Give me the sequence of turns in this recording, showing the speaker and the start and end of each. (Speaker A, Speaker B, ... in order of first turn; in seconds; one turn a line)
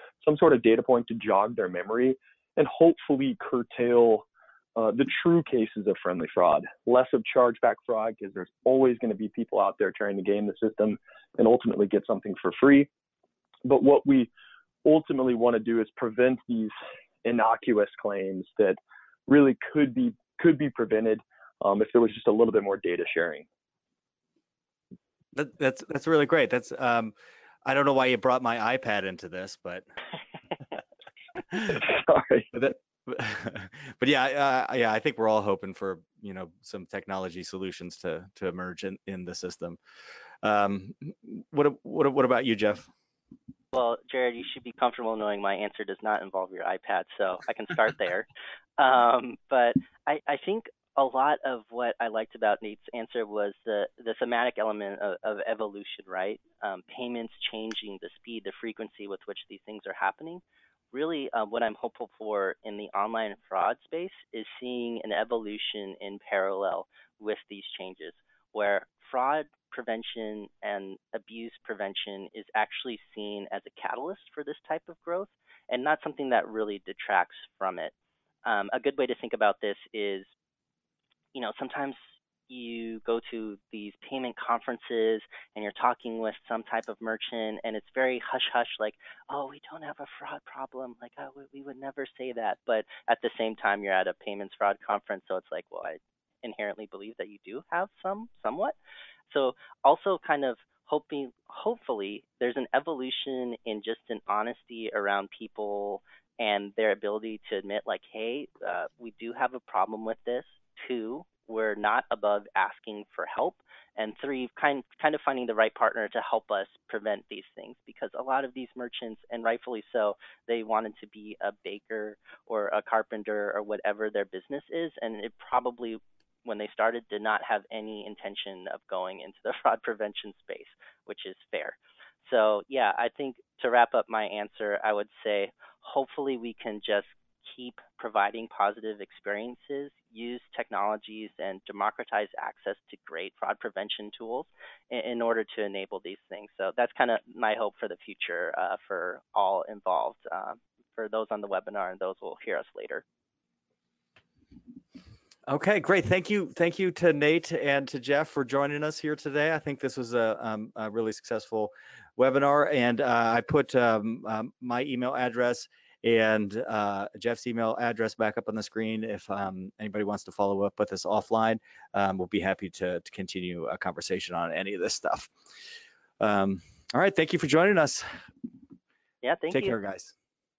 Speaker A: 0.2-12.9
Speaker A: 13.6-14.3
Speaker A: 14.8-23.4
Speaker B: 25.3-27.1
Speaker B: 27.6-29.9
Speaker B: 31.5-31.8
Speaker A: 31.7-32.5
Speaker B: 32.5-39.8
Speaker B: 40.4-42.9
Speaker C: 43.7-77.9
Speaker C: 78.4-80.3
Speaker C: 81.3-98.7
Speaker C: 99.3-153.0
Speaker B: 155.5-175.3
Speaker B: 176.2-178.1
Speaker C: 179.2-179.7
Speaker B: 179.5-180.1